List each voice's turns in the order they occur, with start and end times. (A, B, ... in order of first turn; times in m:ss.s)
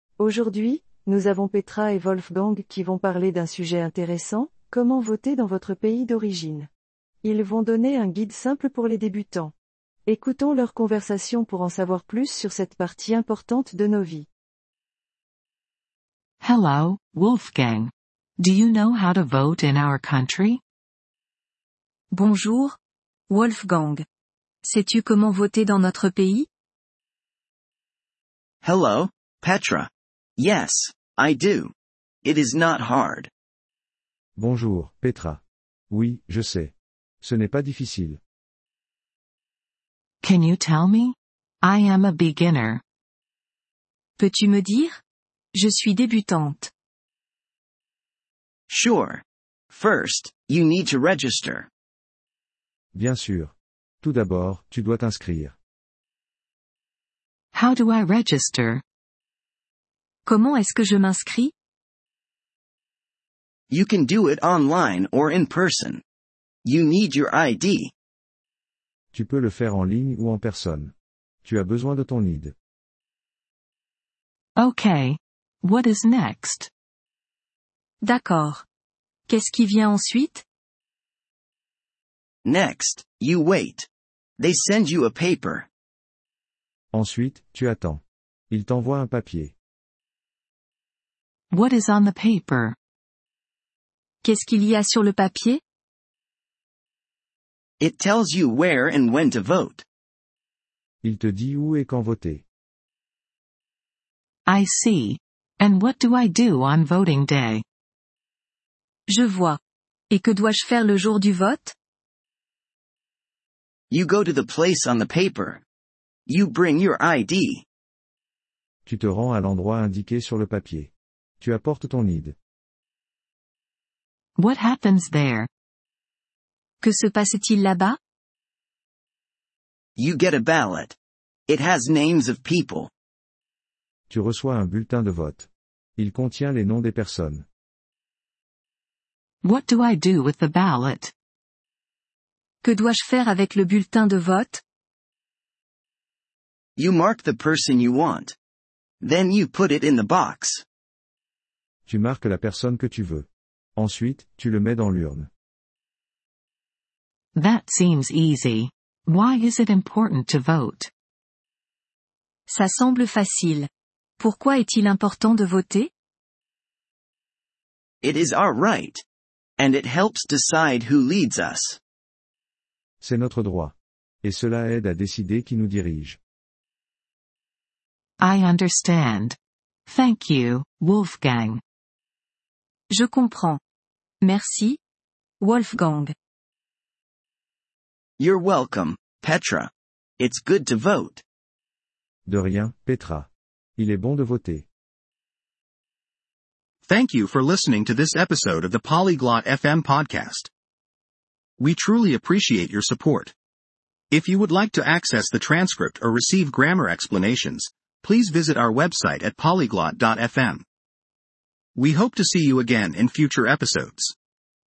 0:00.2-0:06.7 A
0:07.2-0:09.5 A
0:10.1-0:14.3 A
0:16.4-0:20.6 B
0:22.1-0:22.8 C
0:23.3-0:24.0 C
0:24.6-0:26.5 C
0:28.6-0:31.7 D
0:32.2-0:33.3 D
0:34.4-0:38.2 E
0:40.2-0:42.8 B
0:44.2-0:45.0 C
0:45.5-0:46.7 C
0:48.7-0:51.7 D
0:52.9-0:55.6 E
0:57.5-0:58.8 B
1:00.3-1:01.5 C
1:03.7-1:06.0 D
1:06.6-1:07.9 D
1:09.1-1:10.9 E
1:11.4-1:12.5 E
1:14.6-1:16.7 B
1:18.0-1:18.6 C
1:19.3-1:20.4 C
1:22.4-1:23.9 D
1:24.4-1:25.7 D
1:26.9-1:29.5 E
1:31.5-1:32.8 B
1:34.2-1:35.6 C
1:37.8-1:39.8 D
1:41.0-1:42.4 E
1:44.5-1:47.6 B
1:49.1-1:49.6 C
1:50.1-1:51.7 C
1:53.9-1:55.6 D
1:56.3-1:57.6 D
1:58.9-2:02.4 E
2:04.4-2:05.5 B
2:06.8-2:08.0 C
2:10.0-2:11.0 D
2:11.5-2:12.9 D
2:14.1-2:17.5 E
2:19.4-2:21.1 B
2:22.6-2:24.6 C
2:26.8-2:28.4 D
2:29.0-2:30.6 D
2:31.9-2:35.3 E
2:37.3-2:40.9 B
2:42.5-2:43.7 C
2:44.2-2:45.9 C
2:48.0-2:49.0 D
2:49.6-2:51.8 D
2:53.0-2:56.2 E
2:58.2-3:01.6 B
3:02.9-3:03.6 C
3:04.2-3:04.8 C
3:05.4-3:06.1 C
3:08.2-3:11.2 D
3:12.3-3:14.7 E
3:16.9-3:20.5 F
3:21.6-3:23.3 F
3:24.1-3:30.6 F
3:31.8-3:34.1 F